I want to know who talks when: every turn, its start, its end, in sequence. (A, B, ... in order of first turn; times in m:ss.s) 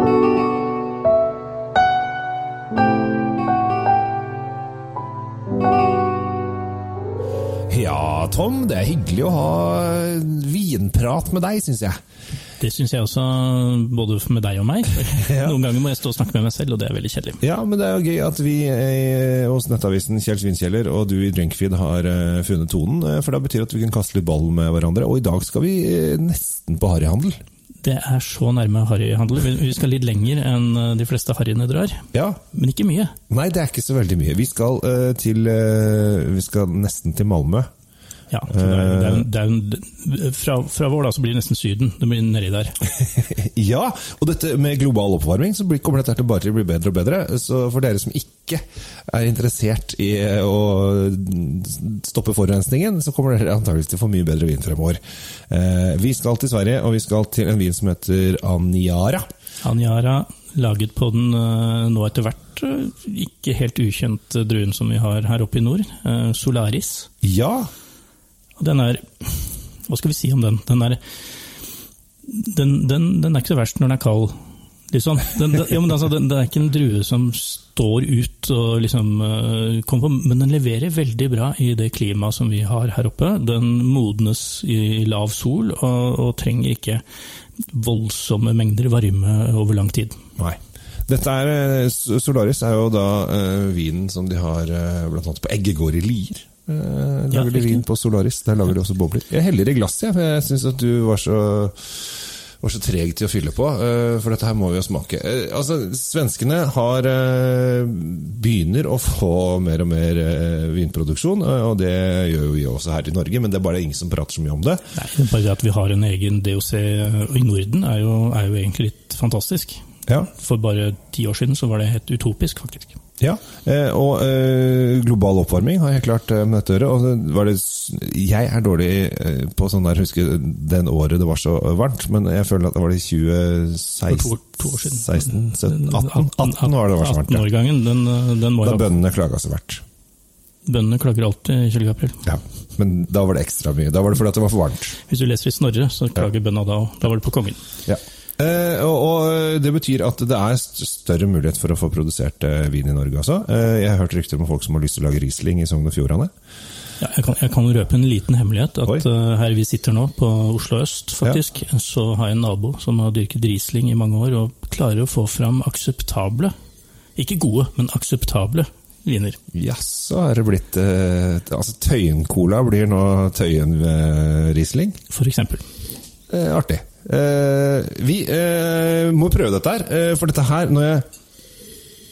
0:07.7-0:12.0 A
0:12.6-0:17.4 B
0:15.2-0:15.6 A
0:17.4-0:27.4 A
0:27.8-0:33.1 B
0:32.1-0:32.4 A
0:33.3-0:37.7 A
0:38.3-0:42.8 B
0:38.5-0:39.3 A
0:42.9-0:59.2 A
0:59.6-1:07.1 B
1:07.2-1:07.7 A
1:08.6-1:11.0 B
1:12.3-1:14.3 B
1:14.9-1:27.0 B
1:27.7-1:30.2 B
1:30.4-1:54.8 A
1:37.3-1:37.8 B
1:54.9-2:03.0 B
2:03.2-2:17.5 A
2:14.1-2:18.9 B
2:18.6-2:19.8 A
2:20.7-2:22.2 B
2:22.3-2:25.0 A
2:25.0-2:27.6 B
2:27.9-2:36.3 A
2:37.0-2:46.5 B
2:47.2-2:49.4 B
2:49.5-2:55.0 A
2:55.1-2:55.6 B
2:56.3-3:01.1 A